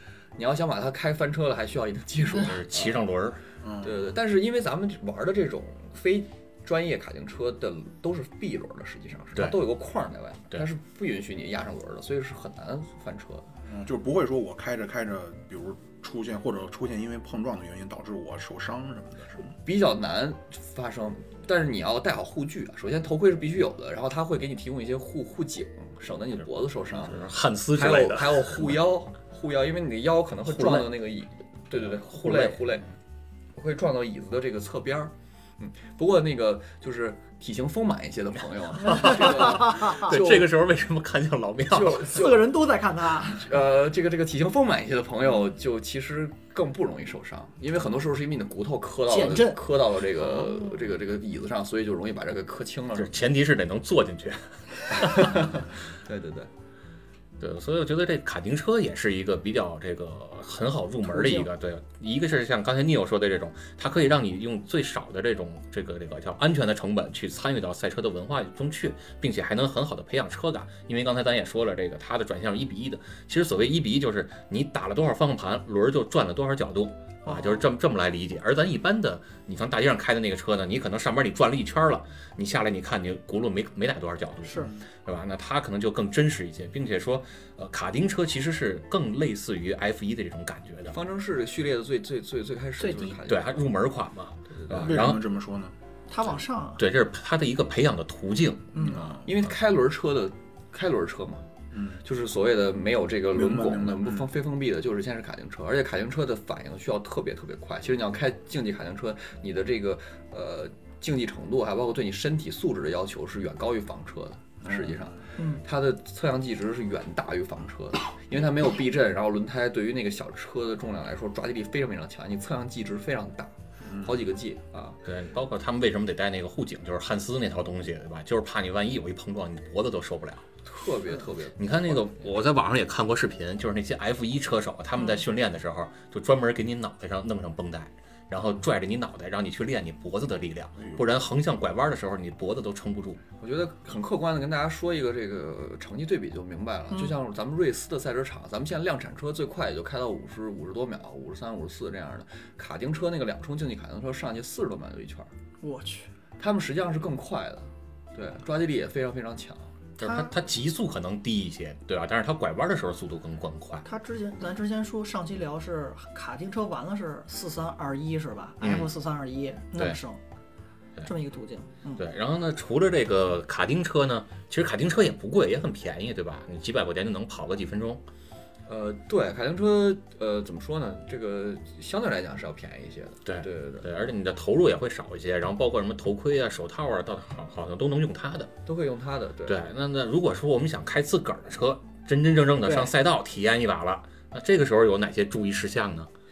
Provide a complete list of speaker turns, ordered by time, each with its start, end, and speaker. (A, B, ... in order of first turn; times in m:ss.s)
0:00.4-0:03.0 A
0:02.3-0:03.4 B
0:03.6-0:04.0 C
0:03.8-0:13.5 A
0:13.6-0:19.5 C
0:19.6-0:32.9 A
0:27.0-0:28.8 B
0:30.5-0:30.9 B
0:32.0-0:32.8 B
0:33.5-0:40.5 A
0:38.8-0:42.1 B
0:38.8-0:40.2 D
0:41.7-0:42.5 A
0:42.0-0:43.5 D
0:43.4-0:53.2 A
0:49.1-0:49.7 D
0:53.0-0:55.6 B
0:54.9-0:56.5 A
0:57.4-1:31.0 B
1:01.1-1:01.5 D
1:17.2-1:17.6 D
1:24.5-1:24.7 D
1:30.9-1:33.6 A
1:32.8-1:33.2 D
1:33.2-1:35.2 B
1:34.6-1:34.8 A
1:34.7-1:35.8 C
1:36.1-1:36.8 D
1:36.8-1:38.8 B
1:38.7-1:39.1 D
1:38.8-1:39.3 C
1:39.2-1:41.5 A
1:41.7-1:42.0 C
1:42.0-2:05.0 A
1:43.3-1:44.2 C
1:54.6-1:55.2 C
1:55.4-1:55.6 D
2:05.0-2:10.4 B
2:10.6-2:12.2 A
2:11.6-2:23.2 B
2:23.4-2:35.3 A
2:35.6-2:36.1 D
2:36.4-2:39.7 A
2:40.0-2:43.8 B
2:40.0-2:40.4 D
2:43.8-2:50.2 D
2:48.6-2:48.9 B
2:51.0-2:52.0 D
2:52.0-2:58.0 B
2:58.7-3:03.9 A
3:03.3-3:08.5 B
3:08.7-3:09.6 A
3:09.5-3:16.1 B
3:12.6-3:12.9 D